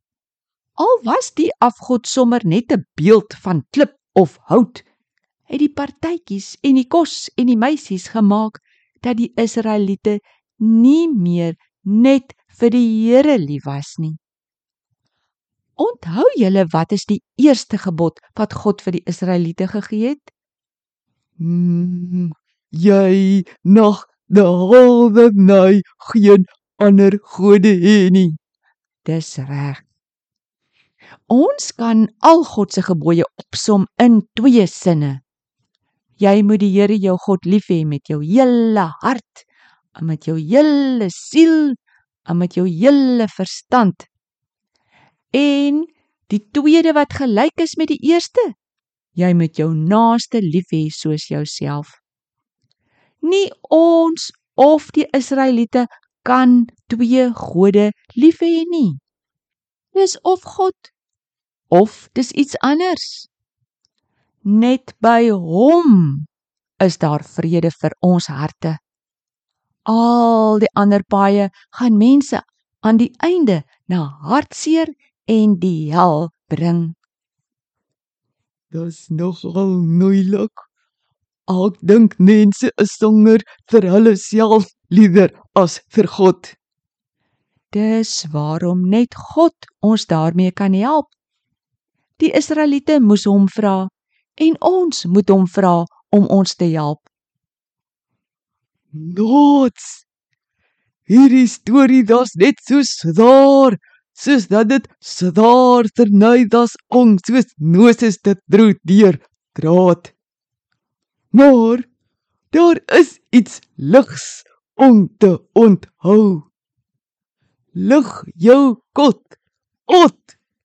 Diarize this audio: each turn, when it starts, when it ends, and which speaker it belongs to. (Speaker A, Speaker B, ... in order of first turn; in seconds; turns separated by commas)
Speaker A: 0.8-4.8, Speaker A: 5.5-14.2, Speaker A: 15.8-20.3, Speaker B: 21.4-28.4, Speaker A: 29.1-29.8, Speaker A: 31.3-35.2, Speaker A: 36.2-44.1, Speaker A: 45.3-48.5, Speaker A: 49.1-52.0, Speaker A: 53.2-59.0, Speaker A: 59.9-60.9, Speaker A: 61.7-63.3, Speaker A: 64.5-66.3, Speaker A: 66.8-68.8, Speaker A: 69.9-77.0, Speaker B: 78.7-80.6, Speaker B: 81.5-86.5, Speaker A: 87.7-91.1, Speaker A: 92.2-97.1, Speaker B: 99.0-100.0, Speaker B: 101.1-110.1, Speaker B: 111.3-111.8, Speaker B: 112.5-116.5, Speaker B: 117.8-119.3, Speaker B: 119.9-120.2